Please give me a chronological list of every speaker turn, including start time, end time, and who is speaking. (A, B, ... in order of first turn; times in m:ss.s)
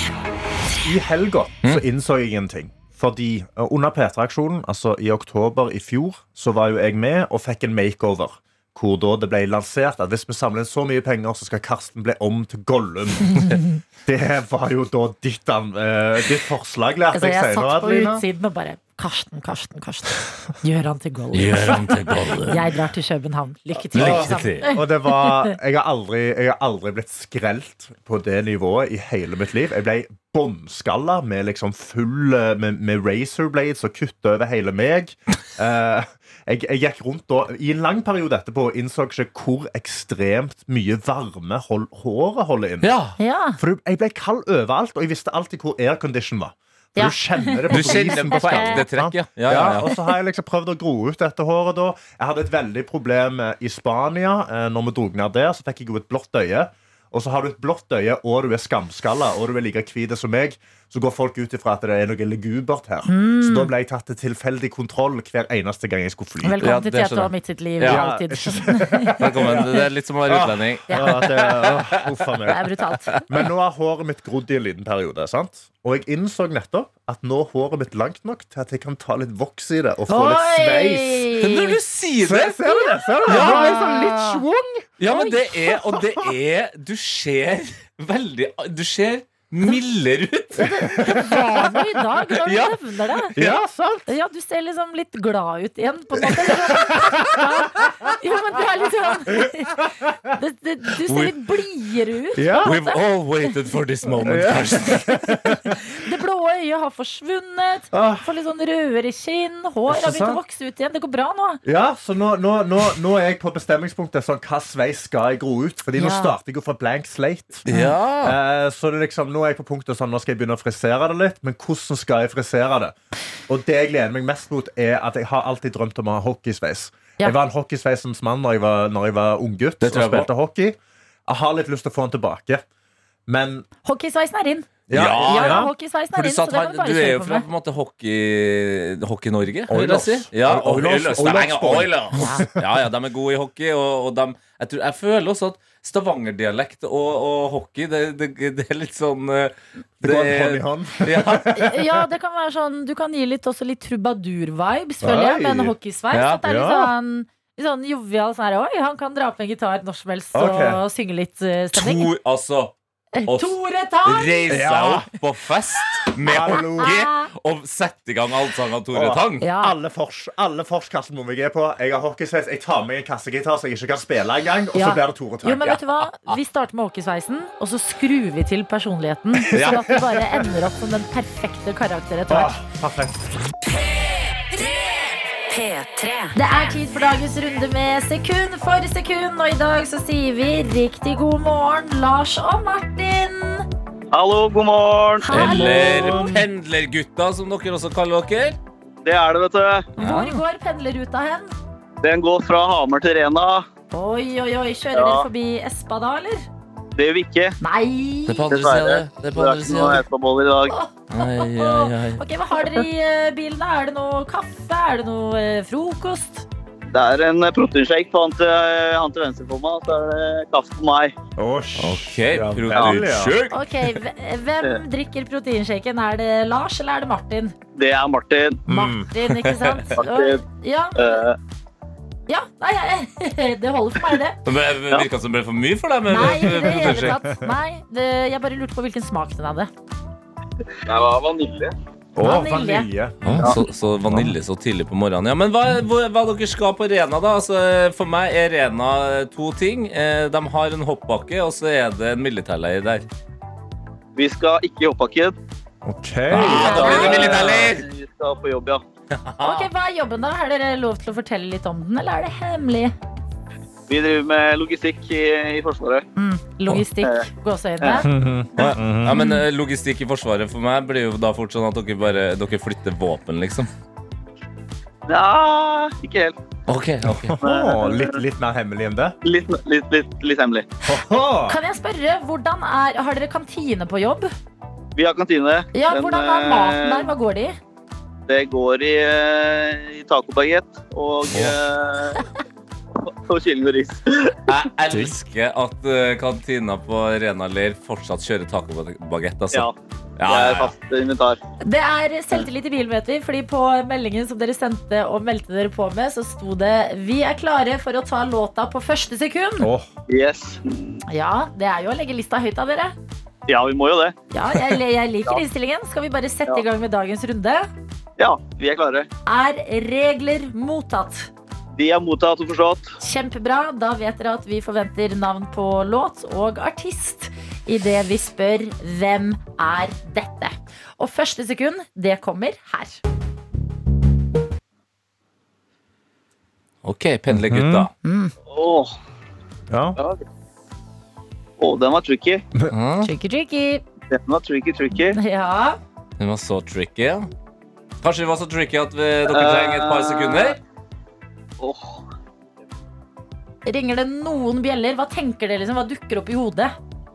0:00.8-0:18.2 A
0:17.1-0:25.5 B
0:21.3-0:22.7 C
0:23.9-0:42.9 A
0:23.9-0:24.7 C
0:42.8-0:43.2 C
0:43.2-0:43.6 B
0:43.6-1:06.6 A
0:47.0-0:48.8 B
0:47.7-0:49.9 C
1:03.1-1:03.7 B
1:06.4-1:09.8 B
1:06.6-1:08.0 C
1:07.8-1:12.6 A
1:09.2-1:12.0 C
1:10.9-1:11.2 B
1:12.5-1:13.2 B
1:13.2-1:21.3 A
1:20.1-1:21.8 B
1:21.4-1:22.7 C
1:22.2-1:24.9 A
1:22.7-1:24.4 B
1:23.3-1:23.9 C
1:25.0-1:31.1 C
1:25.1-1:25.5 B
1:25.7-1:26.3 A
1:30.6-1:33.4 B
1:31.0-1:31.6 A
1:32.4-1:33.6 C
1:33.4-1:34.1 A
1:34.1-1:43.0 B
1:36.2-1:38.1 A
1:39.3-1:40.1 A
1:41.1-1:41.4 C
1:42.4-1:42.8 A
1:42.6-1:45.1 C
1:44.2-1:45.8 A
1:44.9-1:51.6 B
1:47.9-1:48.3 A
1:49.9-1:50.4 A
1:51.6-1:57.7 A
1:56.0-1:56.3 B
1:57.7-1:58.4 C
1:57.7-1:57.9 B
1:58.2-2:03.0 A
2:03.5-2:12.6 A
2:09.8-2:10.3 C
2:13.3-2:13.7 A
2:13.8-2:14.7 B
2:14.9-2:15.7 A
2:14.9-2:31.6 C
2:15.2-2:17.5 B
2:19.7-2:22.6 A
2:22.2-2:22.5 B
2:30.0-2:32.0 A
2:31.6-2:42.1 B
2:35.0-2:35.7 A
2:36.1-2:36.4 C
2:36.4-2:36.9 A
2:40.3-2:40.8 A
2:41.7-2:42.7 C
2:43.2-2:44.6 B
2:43.2-2:49.4 C
2:44.5-2:45.1 A
2:46.2-2:47.0 A
2:46.5-2:47.3 B
2:48.9-2:55.7 A
2:49.4-2:49.7 B
2:54.7-3:02.6 B
2:55.7-2:56.4 C
2:59.4-3:00.0 A
2:59.5-2:59.9 C
3:02.3-3:03.5 A
3:04.3-3:06.4 D
3:06.4-3:13.7 B
3:14.1-3:15.3 E
3:15.2-3:16.4 B
3:15.3-3:18.6 C
3:15.5-3:15.9 A
3:19.0-3:19.9 E
3:20.0-3:20.4 C
3:20.0-3:21.5 B
3:22.0-3:23.7 E
3:23.9-3:26.4 B
3:24.9-3:25.3 E
3:27.0-3:27.6 E
3:27.6-3:28.5 B
3:28.3-3:30.0 C
3:28.5-3:30.8 E
3:30.7-3:36.4 B
3:31.1-3:32.2 C
3:36.9-3:41.2 E
3:41.4-3:43.4 A
3:41.8-3:43.9 C
3:43.5-3:47.6 B
3:47.8-3:48.6 E
3:48.7-3:49.1 A
3:48.7-3:51.2 B
3:49.4-3:49.7 C
3:50.0-3:50.4 E
3:51.0-3:51.4 E
3:52.3-3:54.4 B
3:54.4-3:57.2 C
3:56.1-3:59.7 B
3:56.3-3:57.5 A
4:00.9-4:01.7 E
4:02.2-4:04.4 A
4:02.2-4:02.9 B
4:03.2-4:13.0 C
4:14.2-4:15.4 E
4:15.8-4:17.7 A
4:16.3-4:17.9 C
4:16.5-4:17.4 B
4:16.5-4:18.8 E
4:19.2-4:19.7 C
4:19.4-4:22.9 B
4:23.9-4:26.1 E
4:26.2-4:28.1 B
4:28.0-4:29.2 A
4:28.6-4:33.7 C
4:29.1-4:29.4 B
4:35.1-4:36.4 E
4:36.7-4:37.4 C
4:37.1-4:39.2 A
4:37.4-4:38.2 E
4:39.2-4:40.7 E
4:40.8-4:41.6 A
4:41.5-4:44.3 B
4:45.0-4:47.1 E
4:45.7-4:47.6 B
4:48.3-4:52.2 E
4:53.0-4:54.4 E
4:54.5-5:00.7 C
4:54.9-4:55.2 A
5:00.3-5:01.4 E
5:01.6-5:09.7 B
5:09.6-5:09.9 A
5:10.1-5:11.0 E
5:11.1-5:12.9 B
5:13.5-5:14.2 E
5:14.3-5:17.7 B
5:18.2-5:19.1 E
5:19.3-5:21.3 B
5:21.8-5:22.9 E
5:23.0-5:33.0 B
5:36.8-5:37.9 C
5:37.3-5:37.9 A
5:38.0-5:38.3 B
5:38.5-5:38.9 E
5:39.7-5:40.0 A
5:40.0-5:40.2 E
5:41.6-5:42.4 E
5:42.7-5:43.1 C
5:43.0-5:43.8 B
5:44.1-5:45.2 E
5:45.1-5:45.8 B
5:46.2-5:47.3 C
5:48.0-5:50.6 C
5:49.3-5:50.6 E
5:51.6-5:52.0 E
5:53.7-5:56.8 B